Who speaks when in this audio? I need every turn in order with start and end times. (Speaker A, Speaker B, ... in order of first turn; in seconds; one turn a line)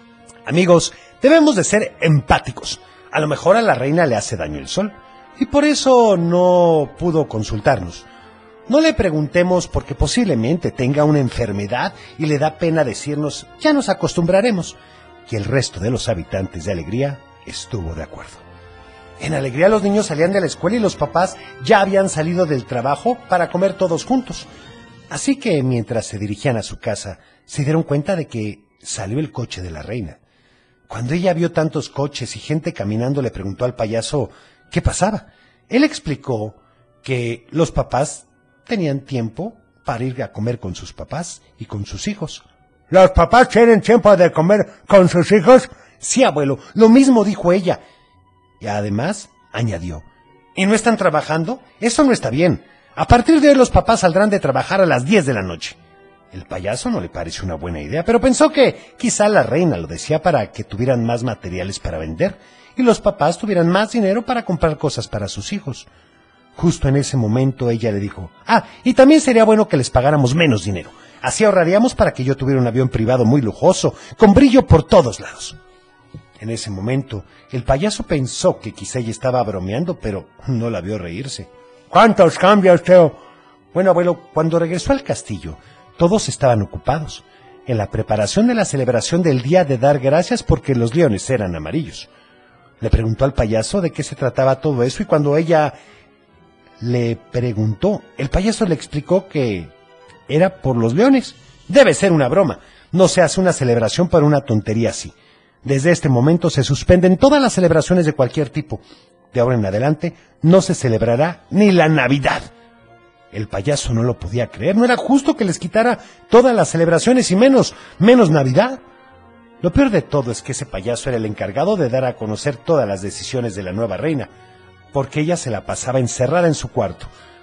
Speaker A: 0.5-8.1
Speaker A: 8.7-14.8
Speaker A: 15.3-18.4
Speaker A: 19.2-24.5
Speaker A: 25.1-30.2
Speaker A: 30.9-47.8
Speaker A: 48.6-50.0
Speaker A: 50.6-55.8
Speaker A: 56.3-65.9
Speaker A: 66.6-75.6
Speaker A: 76.4-83.2
Speaker A: 83.7-92.1
Speaker A: 92.8-95.8
Speaker A: 96.8-99.7
Speaker A: 100.3-105.1
Speaker A: 105.6-108.8
Speaker A: 109.3-112.5
Speaker A: 113.3-118.8
Speaker A: 119.6-124.3
Speaker A: 124.9-127.1